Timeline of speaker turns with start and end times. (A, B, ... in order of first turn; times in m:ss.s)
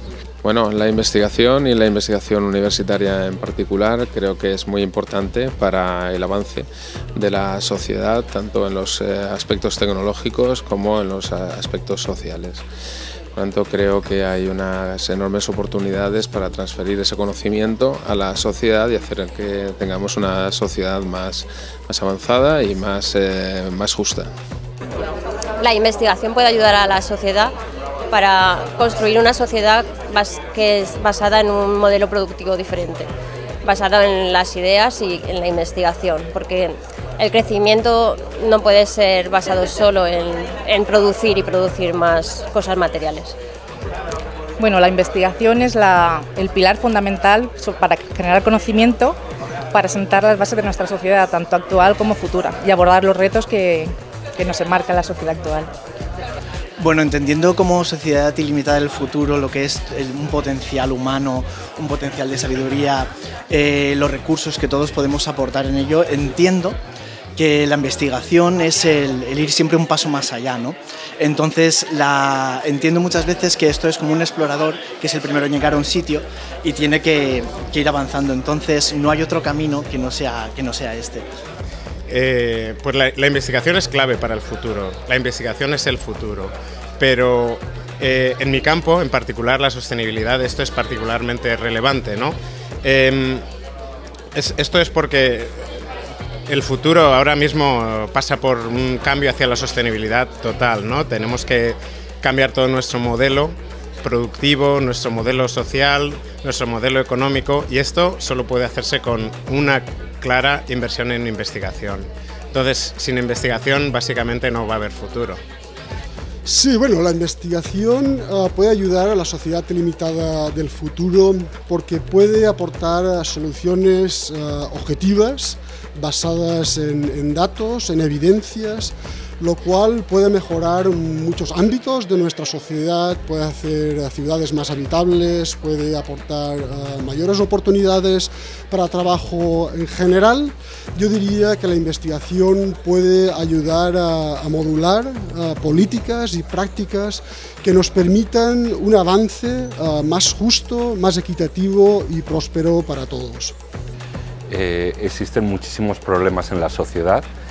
0:00.4-0:12.6 A
0:13.3-0:24.3 A
0:25.6-0:27.5 B
0:28.1-0:33.1 B
0:33.6-0:43.3 B
0:44.6-0:49.2 C
0:49.7-0:55.7 C
0:56.8-1:06.8 D
1:07.4-1:21.3 D
1:22.1-1:33.4 E
1:34.3-1:35.6 E
1:36.5-1:55.4 E
1:56.4-2:33.5 F
2:34.5-2:37.2 G